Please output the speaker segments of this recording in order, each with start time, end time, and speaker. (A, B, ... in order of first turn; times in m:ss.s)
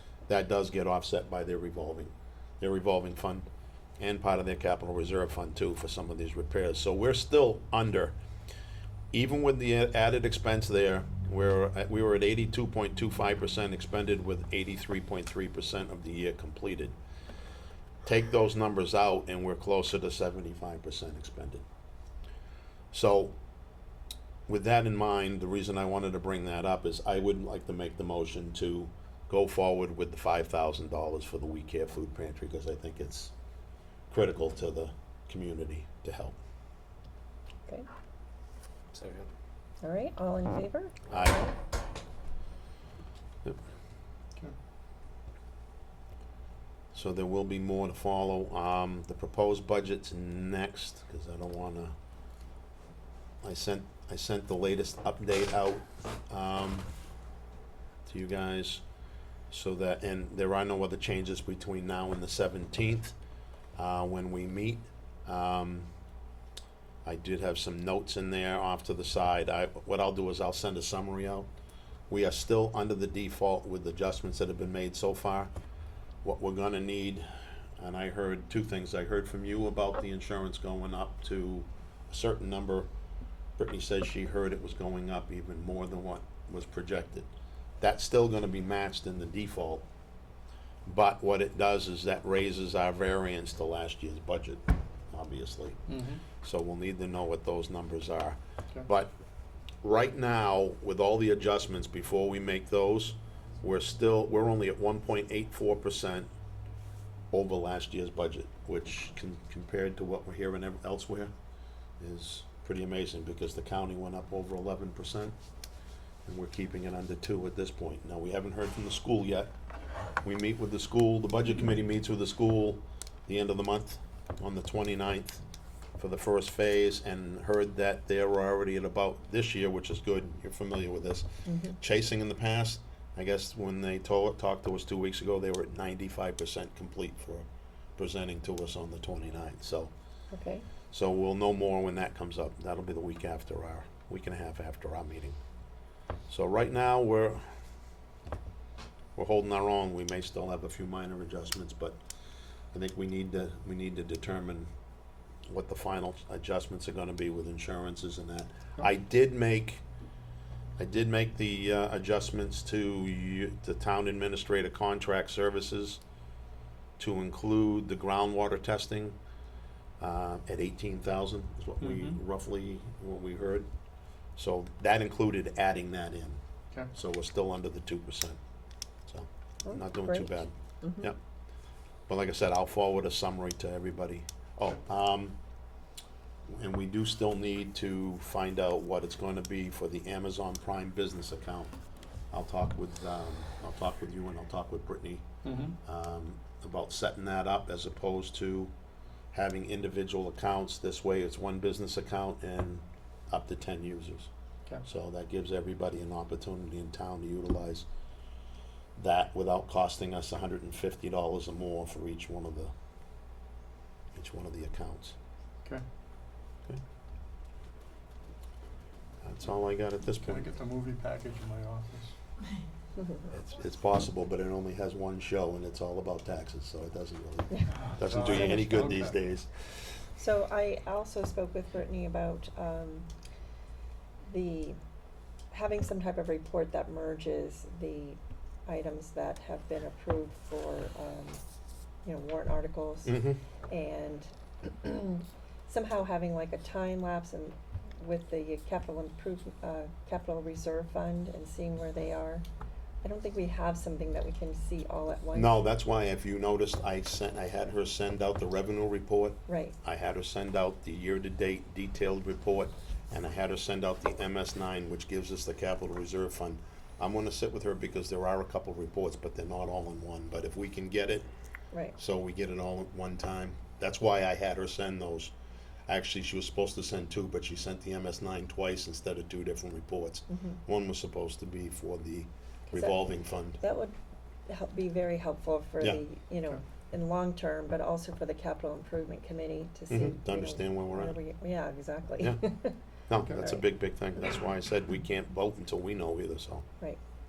0:00.3-0:03.5 A
0:04.0-0:08.1 A
0:09.1-0:16.9 A
0:18.0-0:21.6 A
0:22.9-0:23.3 A
0:24.5-0:33.3 A
0:34.1-0:36.4 A
0:39.8-0:41.5 B
0:41.1-0:41.4 A
0:46.9-0:52.0 A
0:53.4-0:56.9 A
0:58.0-0:58.8 A
0:59.5-1:03.1 A
1:03.8-1:05.9 A
1:07.0-1:11.5 A
1:12.1-1:15.5 A
1:16.2-1:22.9 A
1:23.6-1:27.3 A
1:27.8-1:29.8 A
1:30.8-1:35.8 A
1:35.9-1:36.2 C
1:36.4-1:39.1 A
1:39.8-1:46.3 A
1:47.3-1:51.3 A
1:52.0-1:55.4 A
1:56.2-1:59.5 A
2:00.2-2:05.4 A
2:06.0-2:19.9 A
2:11.5-2:11.8 B
2:20.3-2:20.6 B
2:20.9-2:25.4 A
2:26.3-2:27.5 A
2:29.2-2:32.0 A
2:32.7-2:34.7 A
2:35.5-2:39.8 A
2:40.8-2:46.0 A
2:47.0-2:49.2 A
2:50.0-2:53.7 A
2:51.8-2:52.2 C
2:54.4-2:56.4 A
2:56.9-2:58.4 A
2:59.1-3:01.2 A
2:59.6-3:01.1 B
3:02.1-3:05.4 A
3:06.5-3:11.7 A
3:12.3-3:15.2 A
3:15.4-3:15.8 C
3:15.8-3:18.7 A
3:19.3-3:24.3 A
3:24.8-3:27.8 A
3:29.0-3:32.7 A
3:34.1-3:35.2 A
3:39.2-3:40.5 A
3:40.2-3:42.1 C
3:43.3-3:49.8 A
3:47.9-3:49.2 C
3:50.2-3:53.1 B
3:54.3-3:54.8 B
3:55.5-4:01.4 B
4:02.0-4:12.4 B
4:03.0-4:03.4 A
4:13.0-4:15.6 B
4:15.3-4:31.3 A
4:19.5-4:19.8 B
4:32.0-4:35.3 A
4:35.9-4:43.6 A
4:40.3-4:40.6 B
4:42.7-4:43.0 B
4:43.6-4:43.9 B
4:44.5-4:52.8 B
4:49.9-4:51.1 A
4:53.1-4:56.6 A
4:53.2-4:53.6 C